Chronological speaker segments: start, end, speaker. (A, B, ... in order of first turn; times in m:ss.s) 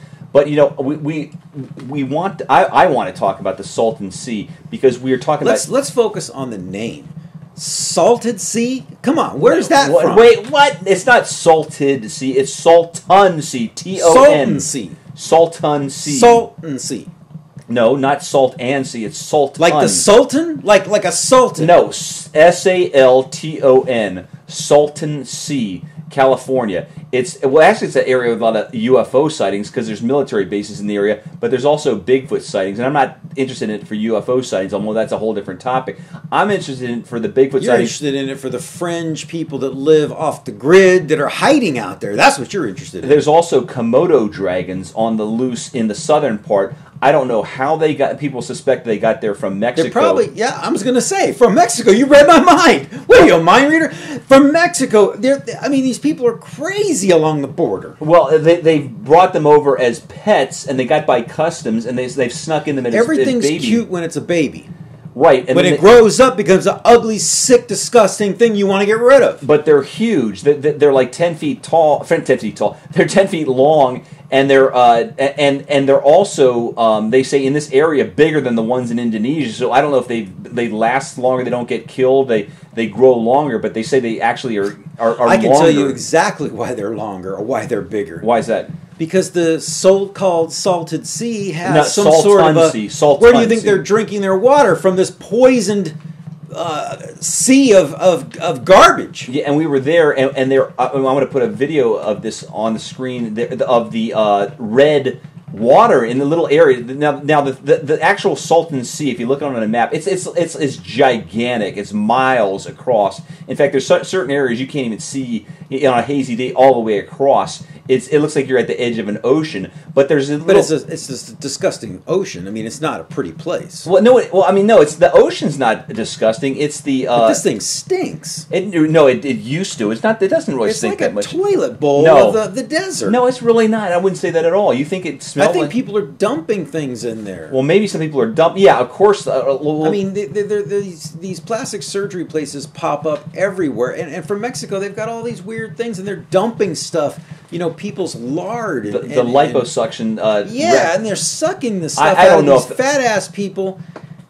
0:00.3-0:05.7 A
0:05.4-0:10.3 B
0:09.4-0:16.4 A
0:13.9-0:15.0 B
0:16.0-0:17.1 B
0:17.7-0:20.1 A
0:19.6-0:21.7 B
0:21.6-0:38.0 A
0:37.6-0:43.2 B
0:43.0-0:50.3 A
0:49.8-0:58.0 B
0:58.0-1:03.8 A
1:02.9-1:04.7 B
1:05.2-1:05.9 A
1:05.5-1:09.4 B
1:09.4-1:26.0 A
1:25.2-1:28.3 B
1:28.2-1:28.7 A
1:29.0-1:36.0 B
1:31.6-1:33.8 A
1:36.5-1:39.3 B
1:39.3-2:00.7 A
2:00.4-2:03.9 B
2:03.8-2:07.4 A
2:07.2-2:08.5 B
2:08.5-2:11.4 A
2:10.6-2:13.2 B
2:12.0-2:12.4 A
2:13.1-2:15.7 A
2:15.4-2:17.6 B
2:17.5-2:20.0 A
2:19.8-2:29.7 B
2:28.9-2:31.0 A
2:30.4-2:33.8 B
2:32.0-2:32.8 A